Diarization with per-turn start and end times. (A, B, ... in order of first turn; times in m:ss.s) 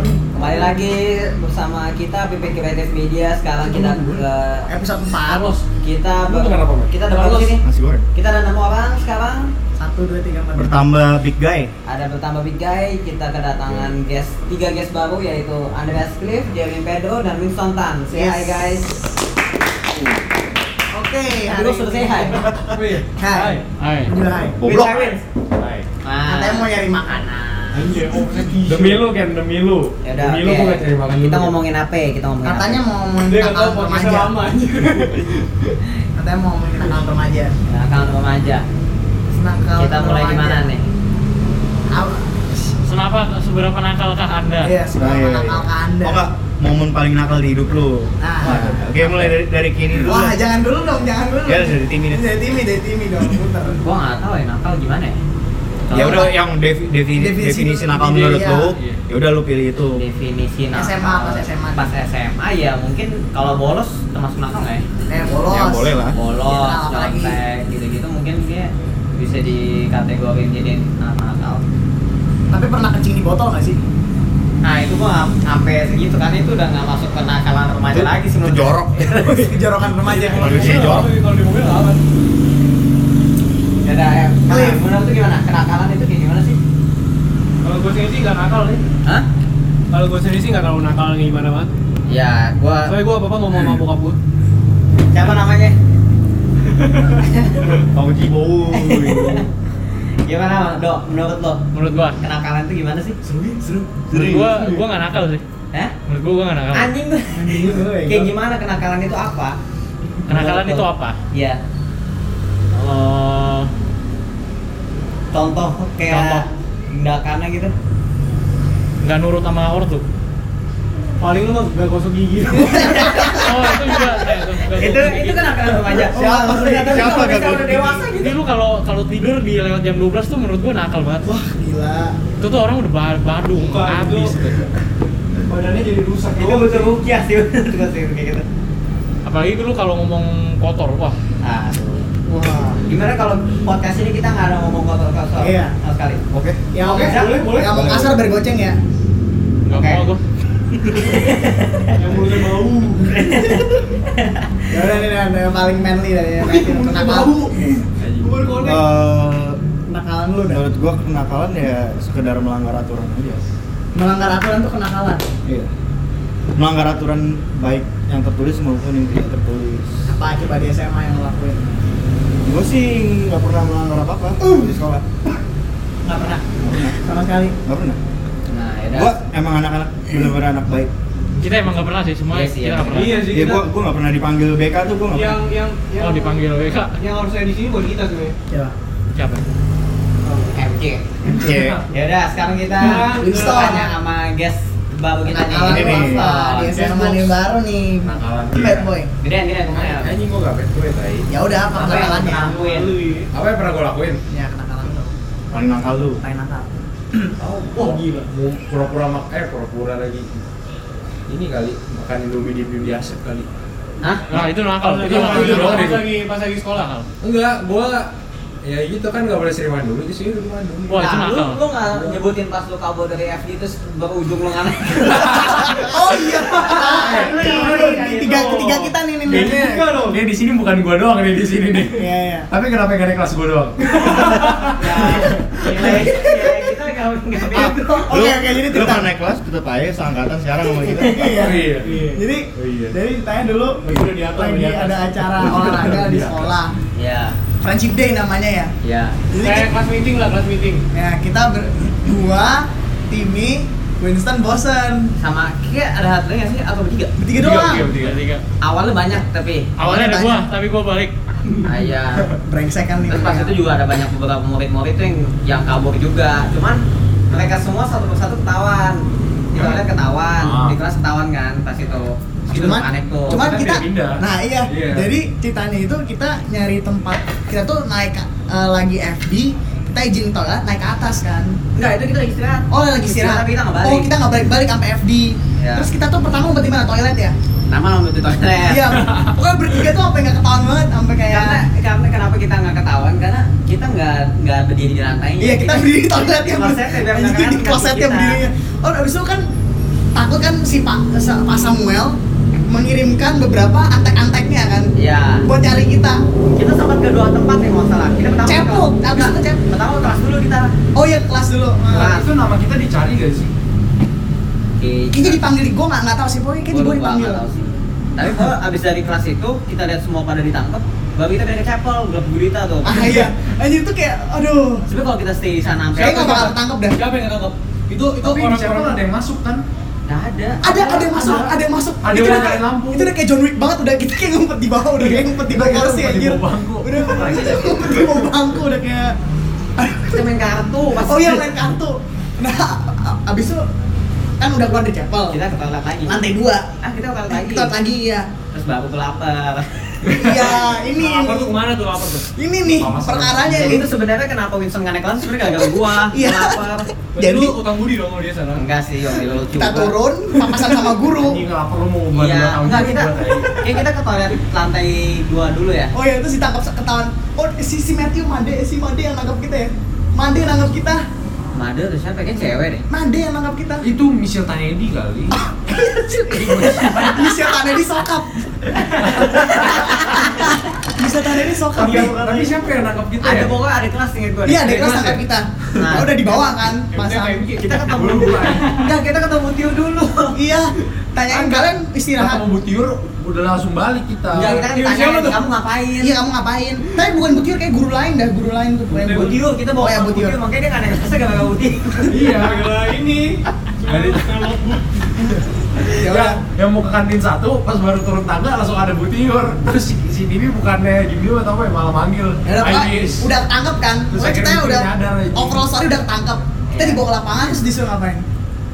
0:00.3-0:04.7 A
0:03.7-0:04.2 B
0:04.7-0:05.6 C
0:05.8-0:07.6 A
0:06.2-0:07.5 B
0:07.6-0:08.0 D
0:08.1-0:09.5 A
0:09.8-0:10.9 C
0:10.5-0:11.7 D
0:11.8-0:19.0 A
0:18.1-0:18.6 C
0:20.9-0:22.6 C
0:21.4-0:22.5 A
0:22.7-0:23.0 B
0:22.8-0:23.6 E
0:23.2-0:25.2 C
0:23.8-0:24.1 F
0:24.6-0:25.2 D
0:24.6-0:25.2 A
0:25.6-0:25.8 B
0:26.0-0:27.8 A
0:26.3-0:27.2 C
0:27.7-0:29.1 E
0:28.6-0:31.6 B
0:30.0-0:32.8 A
0:32.4-0:34.4 C
0:33.2-0:35.7 E
0:36.2-0:37.5 C
0:37.7-0:38.6 A
0:39.3-0:40.6 C
0:39.8-0:40.8 A
0:41.9-0:42.7 C
0:42.8-0:44.7 F
0:44.6-0:46.2 C
0:44.9-0:50.4 D
0:48.2-0:49.4 C
0:48.4-0:48.8 B
0:49.9-0:53.8 C
0:51.4-0:52.3 D
0:53.8-0:55.2 A
0:55.9-0:56.3 A
0:55.9-1:00.0 D
0:55.9-0:56.3 C
0:57.1-0:58.7 C
0:59.9-1:04.8 A
1:00.7-1:01.8 C
1:05.1-1:07.4 C
1:05.4-1:06.2 D
1:06.1-1:11.6 A
1:12.5-1:13.8 C
1:14.6-1:19.5 A
1:17.9-1:19.1 D
1:19.1-1:21.0 C
1:20.0-1:22.0 E
1:20.3-1:21.1 D
1:23.8-1:26.6 A
1:24.4-1:24.8 C
1:27.6-1:28.8 E
1:29.9-1:31.7 E
1:32.1-1:32.9 A
1:32.8-1:34.2 E
1:35.1-1:35.8 A
1:37.0-1:37.7 A
1:37.6-1:39.4 D
1:38.7-1:39.4 A
1:40.2-1:41.6 A
1:41.7-1:42.2 F
1:42.2-1:43.2 A
1:43.2-1:44.2 B
1:44.1-1:44.7 D
1:44.1-1:45.4 F
1:46.1-1:46.9 F
1:46.7-1:49.6 A
1:47.3-1:48.3 C
1:50.3-1:51.2 F
1:50.3-1:51.6 A
1:52.7-1:53.7 F
1:55.3-1:57.7 A
1:56.1-1:56.4 F
1:59.0-2:00.0 F
2:01.2-2:03.2 E
2:02.7-2:03.4 C
2:02.8-2:04.0 A
2:03.3-2:05.6 F
2:04.7-2:08.3 A
2:05.9-2:07.4 C
2:06.2-2:08.1 D
2:08.1-2:11.3 F
2:11.2-2:12.2 C
2:12.4-2:14.4 F
2:13.6-2:14.4 E
2:15.5-2:16.9 E
2:16.3-2:18.4 A
2:19.2-2:21.2 F
2:21.4-2:22.0 A
2:22.2-2:22.8 C
2:22.9-2:26.2 A
2:25.4-2:25.7 C
2:26.3-2:26.6 D
2:26.7-2:28.8 C
2:26.8-2:28.0 E
2:26.8-2:27.5 A
2:27.6-2:28.2 D
2:29.6-2:30.2 F
2:29.7-2:30.0 A
2:31.0-2:32.0 A
2:32.0-2:33.2 E
2:33.1-2:33.6 A
2:33.2-2:33.7 C
2:34.2-2:34.4 A
2:34.7-2:37.6 C
2:36.4-2:38.8 E
2:38.0-2:38.3 B
2:38.6-2:39.6 D
2:39.9-2:40.6 C
2:40.4-2:43.4 D
2:43.9-2:45.2 C
2:46.6-2:49.9 D
2:50.1-2:51.6 C
2:52.4-2:55.0 D
2:54.4-2:54.7 C
2:56.0-2:56.4 C
2:56.6-2:57.0 D
2:57.0-2:57.6 C
2:57.6-2:58.0 D
2:58.5-2:59.2 A
2:58.9-3:00.9 D
3:01.4-3:03.4 F
3:02.3-3:03.2 A
3:02.9-3:03.6 E
3:03.3-3:05.4 D
3:05.1-3:06.4 E
3:06.0-3:07.0 F
3:07.0-3:08.3 E
3:09.1-3:09.4 F
3:10.2-3:10.5 E
3:10.5-3:11.0 A
3:11.2-3:11.8 D
3:11.9-3:16.7 A
3:12.8-3:13.9 E
3:12.8-3:13.9 C
3:15.2-3:19.1 C
3:15.6-3:16.3 D
3:16.7-3:17.3 E
3:18.0-3:18.9 B
3:19.2-3:20.1 A
3:19.7-3:21.3 B
3:21.3-3:22.5 C
3:21.7-3:23.0 A
3:21.9-3:23.3 E
3:23.3-3:24.2 B
3:24.3-3:25.1 C
3:25.5-3:26.2 D
3:26.2-3:27.3 C
3:27.4-3:30.4 B
3:27.7-3:28.3 E
3:31.3-3:33.5 B
3:34.3-3:36.1 F
3:34.7-3:37.0 E
3:35.0-3:36.1 B
3:37.2-3:38.1 B
3:38.6-3:41.1 B
3:40.9-3:41.6 F
3:41.0-3:45.9 A
3:41.9-3:42.2 B
3:45.0-3:45.6 B
3:45.6-3:49.6 C
3:46.7-3:47.5 B
3:46.9-3:48.4 E
3:47.0-3:48.9 F
3:49.2-3:56.1 B
3:49.4-3:50.2 E
3:52.0-3:52.5 C
3:54.7-3:58.1 A
3:55.8-3:56.5 C
3:57.4-3:59.1 C
3:58.1-4:01.4 D
4:01.0-4:06.7 C
4:01.3-4:02.0 B
4:01.8-4:02.2 E
4:02.6-4:03.0 B
4:03.9-4:05.0 F
4:05.3-4:06.5 B
4:06.9-4:07.4 A
4:07.6-4:08.7 C
4:08.8-4:09.2 A
4:09.3-4:09.7 C
4:09.4-4:10.8 E
4:10.9-4:15.1 C
4:15.2-4:17.1 A
4:17.2-4:17.9 C
4:17.3-4:18.2 B
4:17.8-4:18.4 F
4:18.6-4:19.7 A
4:19.8-4:21.1 F
4:19.8-4:20.4 C
4:21.6-4:22.2 A
4:22.4-4:23.6 C
4:23.1-4:33.4 A
4:29.5-4:29.8 B
4:30.4-4:30.8 B
4:32.5-4:41.6 C
4:32.5-4:35.1 B
4:41.7-4:44.1 A
4:42.7-4:47.3 C
4:45.6-4:45.9 A
4:47.7-4:49.0 A
4:48.7-4:51.6 C
4:51.3-4:58.4 A
4:55.4-4:59.4 C
5:00.1-5:02.2 C
5:02.7-5:04.9 C
5:05.0-5:05.4 A
5:05.4-5:06.2 C
5:06.5-5:10.7 A
5:08.4-5:09.6 C
5:10.9-5:12.1 C
5:11.9-5:12.2 A
5:11.9-5:13.5 B
5:14.8-5:15.5 A
5:15.1-5:17.4 C
5:16.7-5:23.2 A
5:22.8-5:24.8 C
5:22.9-5:23.3 B
5:24.9-5:26.5 A
5:26.0-5:27.0 C
5:26.9-5:29.0 E
5:28.1-5:29.6 B
5:30.1-5:31.5 A
5:30.6-5:39.2 C
5:32.0-5:33.1 B
5:32.1-5:32.6 A
5:34.9-5:38.3 B
5:39.8-5:40.3 C
5:40.1-5:41.6 A
5:41.0-5:43.6 C
5:44.4-5:45.4 C
5:45.3-5:46.2 A
5:46.1-5:46.7 C
5:46.8-5:47.7 A
5:47.3-5:48.3 C
5:48.5-5:50.0 A
5:50.1-5:50.4 B
5:50.1-5:51.6 C
5:51.0-5:52.2 E
5:52.3-5:53.9 C
5:52.7-5:53.9 B
5:53.5-5:56.9 A
5:56.0-5:57.6 C
5:57.2-5:58.6 E
5:58.5-5:59.9 A
5:59.5-6:01.4 C
6:00.5-6:03.5 B
6:02.1-6:05.9 A
6:05.9-6:11.0 C
6:11.5-6:12.8 A
6:12.9-6:13.8 C
6:13.8-6:15.3 B
6:15.6-6:22.6 C
6:16.3-6:17.3 B
6:19.3-6:19.7 A
6:21.7-6:23.6 B
6:23.2-6:24.8 A
6:24.4-6:27.5 C
6:24.6-6:25.2 B
6:25.8-6:26.1 A
6:26.9-6:28.2 E
6:27.6-6:30.3 A
6:27.7-6:28.7 B
6:30.3-6:32.4 C
6:31.3-6:34.6 B
6:34.3-6:36.2 A
6:34.4-6:35.4 E
6:36.0-6:40.4 C
6:38.9-6:39.4 E
6:39.1-6:42.2 A
6:42.1-6:42.7 B
6:42.1-6:45.0 E
6:43.8-6:44.4 B
6:45.3-6:53.3 B
6:45.9-6:46.4 C
6:52.4-6:58.2 C
6:54.1-6:55.7 B
6:56.7-6:57.0 A